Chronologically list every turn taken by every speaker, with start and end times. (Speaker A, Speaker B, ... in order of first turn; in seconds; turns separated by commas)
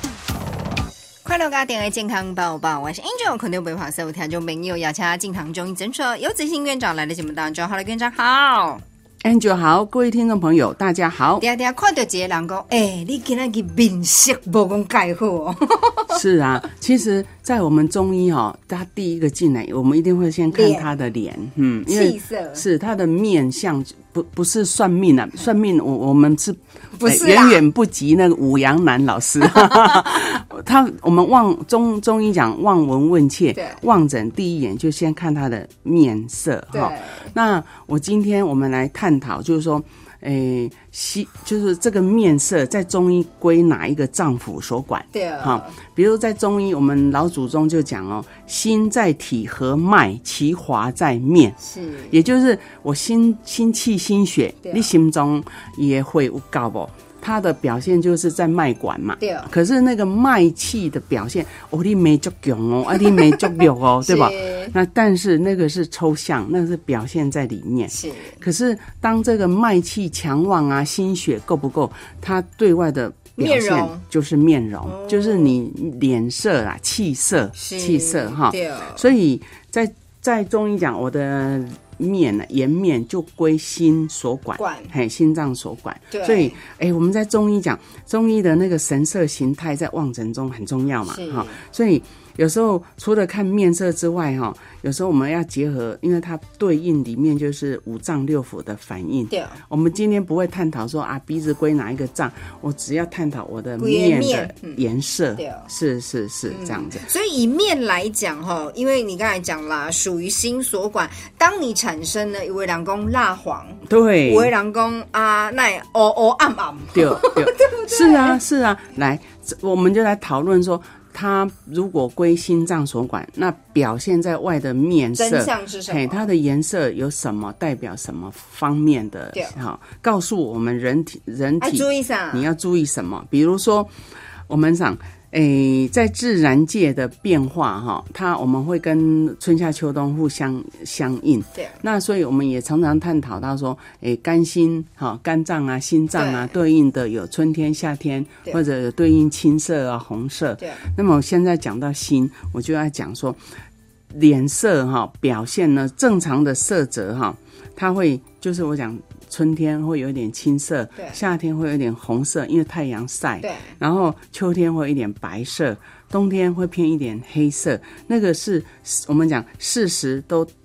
Speaker A: 1.2-8.8, Speaker B: 9.2-11.4, Speaker A: 11.4-16.2, Speaker B: 16.1-51.6, Speaker A: 20.5-20.9, Speaker A: 21.9-22.7, Speaker A: 26.9-27.6, Speaker A: 33.5-33.8, Speaker A: 36.7-37.3, Speaker A: 45.1-45.8, Speaker A: 51.6-52.2, Speaker B: 52.1-107.1, Speaker A: 54.6-54.9, Speaker A: 59.2-59.5, Speaker A: 64.0-64.8, Speaker A: 67.9-68.4, Speaker A: 73.4-74.0, Speaker A: 74.8-75.6, Speaker A: 77.5-79.1, Speaker A: 84.6-84.9, Speaker A: 86.1-86.6, Speaker A: 91.0-91.6, Speaker A: 99.3-99.6, Speaker A: 103.8-104.8, Speaker A: 105.4-105.7, Speaker A: 106.5-118.4, Speaker B: 113.9-114.5, Speaker B: 116.9-133.9, Speaker A: 125.2-126.3, Speaker A: 129.3-129.6, Speaker A: 131.6-132.5, Speaker B: 134.5-153.4, Speaker A: 141.5-141.8, Speaker A: 146.1-146.6, Speaker A: 150.6-150.9, Speaker B: 154.1-170.5, Speaker A: 163.4-163.8